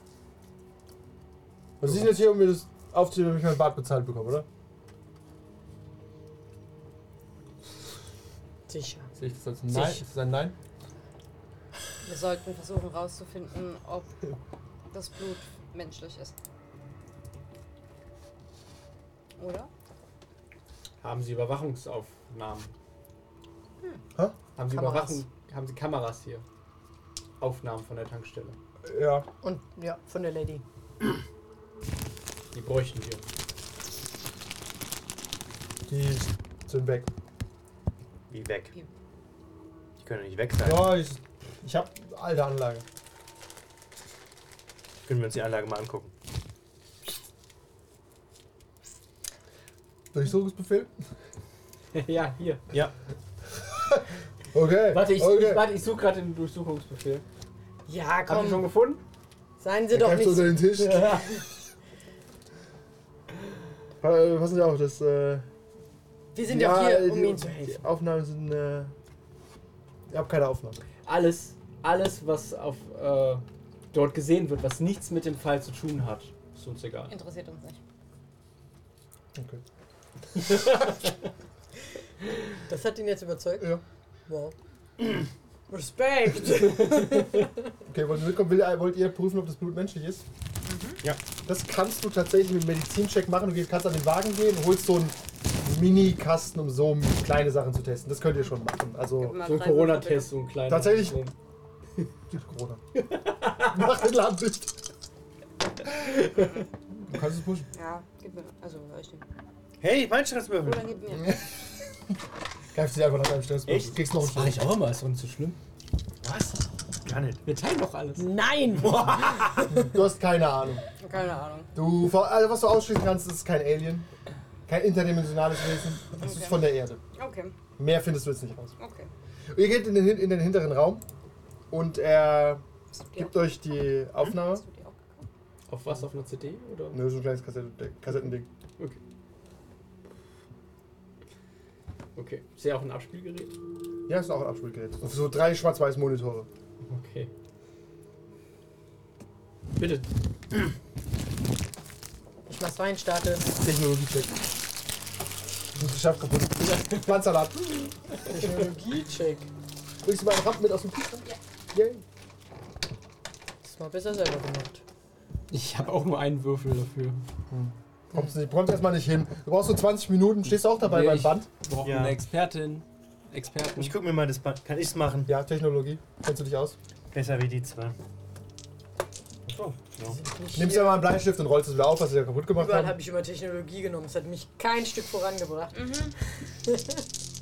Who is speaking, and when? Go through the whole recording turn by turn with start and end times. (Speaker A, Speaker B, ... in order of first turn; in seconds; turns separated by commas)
Speaker A: 1.8-4.5, Speaker B: 8.7-9.1, Speaker A: 9.2-10.6, Speaker C: 12.0-14.2, Speaker C: 14.9-16.4, Speaker C: 19.4-19.7, Speaker D: 21.0-22.7, Speaker D: 24.6-26.4, Speaker B: 24.7-25.2, Speaker D: 27.4-28.6, Speaker A: 28.9-29.3, Speaker B: 29.4-30.6, Speaker D: 32.5-33.2, Speaker A: 35.9-37.1, Speaker E: 38.3-38.7, Speaker E: 40.0-40.9, Speaker A: 40.6-42.8, Speaker E: 45.1-46.1, Speaker A: 50.1-50.9, Speaker D: 51.9-52.6, Speaker A: 53.6-55.7, Speaker D: 54.9-57.2, Speaker B: 57.9-58.7, Speaker D: 58.3-59.0, Speaker B: 59.6-61.3, Speaker A: 59.9-61.4, Speaker D: 60.9-61.2, Speaker A: 64.0-65.5, Speaker B: 66.3-67.8, Speaker A: 66.4-68.9, Speaker A: 70.1-70.8, Speaker D: 71.1-77.1, Speaker C: 77.1-77.8, Speaker A: 79.3-79.6, Speaker A: 80.5-80.8, Speaker B: 82.7-83.7, Speaker B: 84.3-84.5, Speaker B: 85.7-87.5, Speaker A: 87.9-90.2, Speaker C: 90.7-91.0, Speaker A: 91.5-99.4, Speaker C: 99.2-100.3, Speaker D: 99.4-101.3, Speaker A: 100.7-101.2, Speaker A: 102.3-102.8, Speaker D: 103.0-103.7, Speaker A: 103.6-104.8, Speaker C: 106.3-106.7, Speaker A: 107.0-107.7, Speaker C: 107.7-109.2, Speaker E: 109.8-111.0, Speaker C: 110.6-111.5, Speaker A: 111.2-111.4, Speaker A: 112.7-114.7, Speaker E: 113.7-114.0, Speaker D: 114.2-115.6, Speaker E: 116.2-117.4, Speaker D: 117.5-118.3, Speaker B: 118.2-119.1, Speaker E: 118.8-119.7, Speaker D: 118.9-119.4, Speaker A: 119.7-120.8, Speaker C: 121.0-121.7, Speaker A: 121.8-124.1, Speaker A: 124.7-127.0, Speaker C: 126.2-127.5, Speaker A: 127.8-128.7, Speaker C: 128.8-129.1, Speaker A: 129.5-131.0, Speaker A: 131.7-132.6, Speaker C: 133.0-133.6, Speaker A: 133.2-134.6, Speaker C: 134.2-135.3, Speaker D: 135.7-137.0, Speaker A: 136.9-138.5, Speaker D: 142.2-143.6, Speaker A: 144.1-146.5, Speaker D: 146.9-147.3, Speaker D: 149.8-150.1, Speaker B: 152.5-153.5, Speaker A: 153.6-154.3, Speaker A: 155.8-158.5, Speaker B: 158.3-159.5, Speaker A: 160.0-162.0, Speaker B: 163.6-164.8, Speaker D: 165.5-167.2, Speaker A: 167.5-171.5, Speaker D: 170.5-173.9, Speaker E: 171.8-172.2, Speaker E: 173.8-175.3, Speaker A: 175.3-176.8, Speaker E: 177.1-178.0, Speaker E: 179.5-180.2, Speaker B: 180.1-181.1, Speaker A: 180.6-182.9, Speaker B: 182.6-187.0, Speaker C: 185.7-186.2